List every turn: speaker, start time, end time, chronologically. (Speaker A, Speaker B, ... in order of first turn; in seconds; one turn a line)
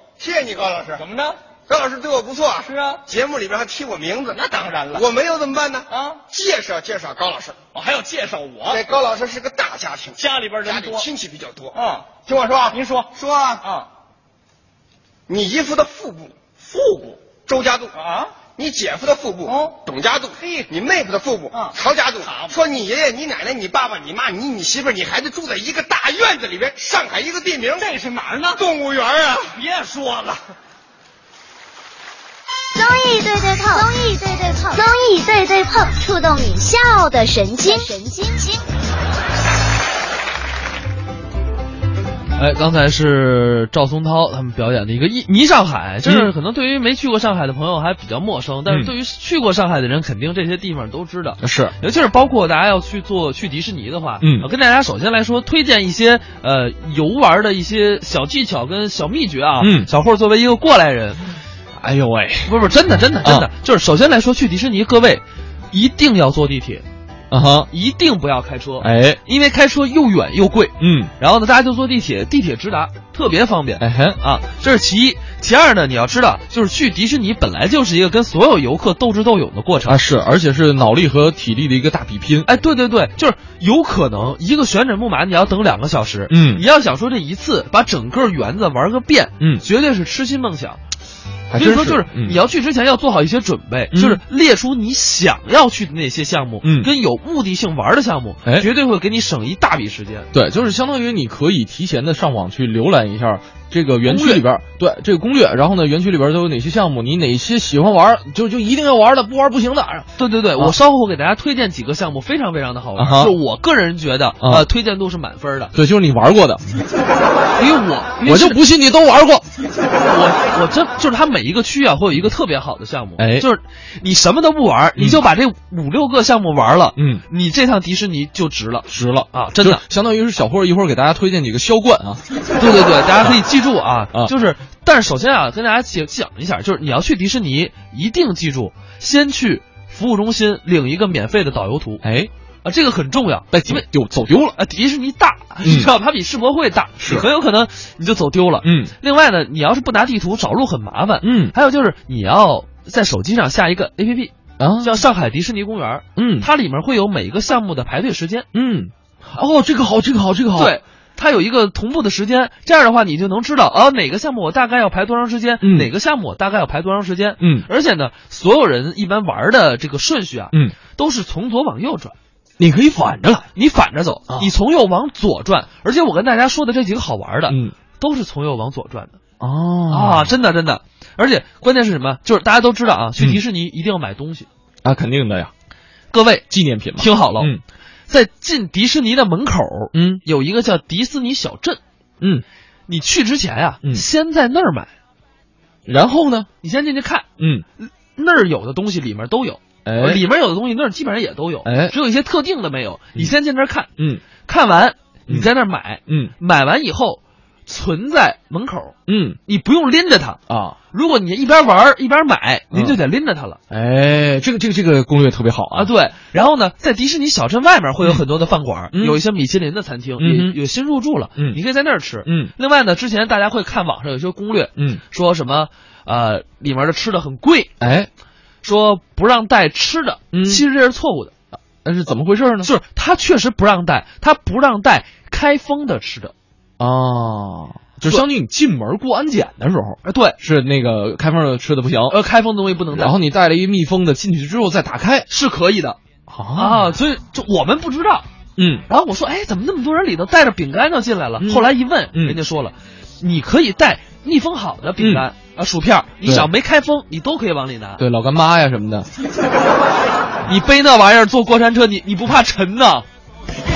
Speaker A: 0.2-1.0
Speaker B: 1.0-1.4
Speaker A: 1.7-7.6
Speaker B: 2.6-3.0
Speaker B: 4.3-5.0
Speaker B: 5.9-6.2
Speaker B: 7.7-8.8
Speaker A: 8.7-13.6
Speaker B: 10.2-11.1
Speaker B: 11.7-12.2
Speaker B: 12.7-13.1
Speaker B: 13.6-13.9
Speaker A: 15.3-16.4
Speaker B: 16.6-17.2
Speaker A: 17.5-17.9
Speaker B: 17.9-18.3
Speaker A: 18.6-27.8
Speaker B: 19.5-19.8
Speaker B: 20.4-20.7
Speaker B: 21.5-22.6
Speaker B: 27.8-28.6
Speaker A: 28.5-29.5
Speaker B: 29.5-30.4
Speaker C: 32.8-38.6
Speaker D: 42.4-61.2
Speaker E: 46.0-46.3
Speaker E: 51.4-51.7
Speaker E: 54.2-54.5
Speaker E: 59.6-59.9
Speaker E: 61.8-62.5
Speaker D: 62.5-66.8
Speaker E: 63.2-63.5
Speaker E: 67.3-67.7
Speaker D: 67.7-80.0
Speaker E: 68.8-69.2
Speaker E: 70.8-71.1
Speaker E: 73.8-74.2
Speaker E: 79.9-82.5
Speaker D: 82.5-90.8
Speaker E: 86.3-86.6
Speaker E: 89.4-89.7
Speaker E: 91.5-92.4
Speaker D: 91.5-100.3
Speaker E: 93.9-94.2
Speaker E: 96.6-96.9
Speaker E: 100.3-110.8
Speaker D: 104.1-104.4
Speaker D: 110.2-115.7
Speaker E: 113.0-113.4
Speaker E: 114.4-114.7
Speaker E: 115.7-116.6
Speaker D: 117.6-118.6
Speaker E: 118.2-119.5
Speaker D: 120.0-129.8
Speaker E: 123.2-123.5
Speaker E: 127.0-127.2
Speaker E: 128.9-132.2
Speaker D: 132.6-142.0
Speaker E: 142.0-142.3
Speaker D: 142.6-143.9
Speaker E: 143.5-144.6
Speaker D: 144.5-158.5
Speaker E: 145.6-145.9
Speaker E: 147.0-147.3
Speaker E: 148.6-148.9
Speaker E: 151.2-151.5
Speaker E: 154.6-155.0
Speaker E: 156.2-156.5
Speaker E: 158.5-160.8
Speaker D: 160.5-172.2
Speaker E: 165.6-165.9
Speaker E: 167.4-167.7
Speaker E: 172.6-173.5
Speaker D: 173.5-179.2
Speaker E: 177.5-177.7
Speaker E: 179.4-180.3
Speaker D: 179.9-184.5
Speaker E: 184.8-185.5
Speaker D: 186.1-187.5
Speaker E: 186.5-187.6
Speaker D: 188.1-191.8
Speaker E: 189.9-190.2
Speaker D: 192.9-194.9
Speaker E: 195.9-196.5
Speaker D: 196.6-203.9
Speaker E: 197.4-197.7
Speaker E: 199.8-200.2
Speaker E: 201.7-201.9
Speaker D: 204.5-210.4
Speaker E: 206.1-206.3
Speaker E: 209.1-209.4
Speaker E: 210.5-210.8
Speaker D: 210.9-213.6
Speaker E: 212.7-213.0
Speaker E: 213.7-215.9
Speaker D: 215.7-227.8
Speaker E: 218.9-219.2
Speaker E: 220.2-220.6
Speaker E: 222.2-222.5
Speaker E: 224.8-225.0
Speaker E: 227.8-228.1
Speaker D: 228.6-231.3
Speaker E: 230.3-230.6
Speaker E: 231.8-232.7
Speaker D: 232.6-236.3
Speaker E: 236.8-242.2
Speaker D: 240.0-240.4
Speaker D: 242.1-243.2
Speaker E: 242.9-245.3
Speaker D: 245.3-246.0
Speaker E: 246.3-247.0
Speaker D: 246.6-248.3
Speaker E: 248.6-248.8
Speaker D: 248.9-258.0
Speaker E: 251.4-252.4
Speaker E: 255.0-255.2
Speaker E: 256.2-256.5
Speaker E: 258.0-259.1
Speaker D: 260.5-263.1